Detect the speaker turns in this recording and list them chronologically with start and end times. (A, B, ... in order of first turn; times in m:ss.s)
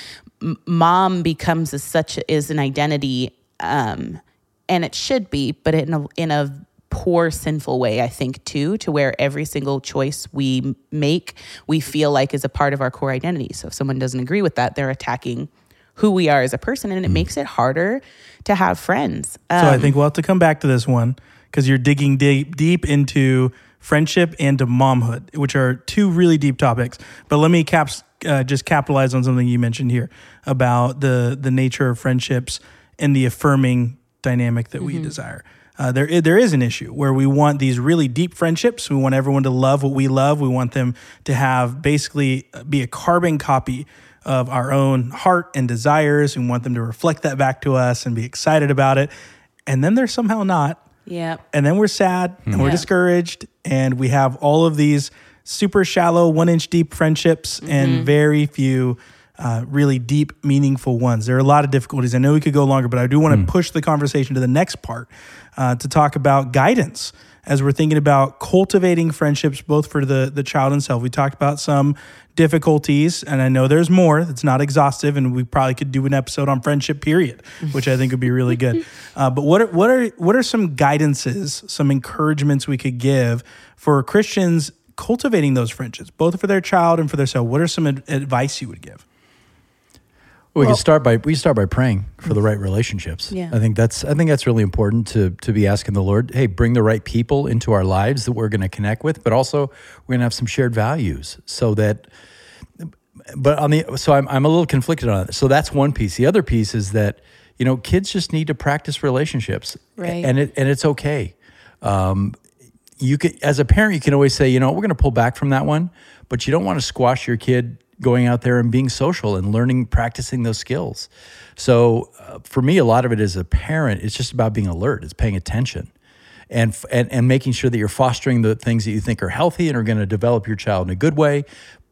0:00.4-0:19.9 A
0:19.6-0:49.1 B
0:34.8-0:35.2 A
0:49.6-0:50.8 B
0:51.0-0:51.4 A
0:51.5-1:29.0 B
0:52.6-0:52.9 A
0:57.6-0:58.1 A
1:30.5-1:42.1 C
1:33.3-1:33.6 A
1:42.8-1:52.4 C
1:50.0-1:50.3 A
1:53.0-2:05.9 C
2:06.5-2:11.5 C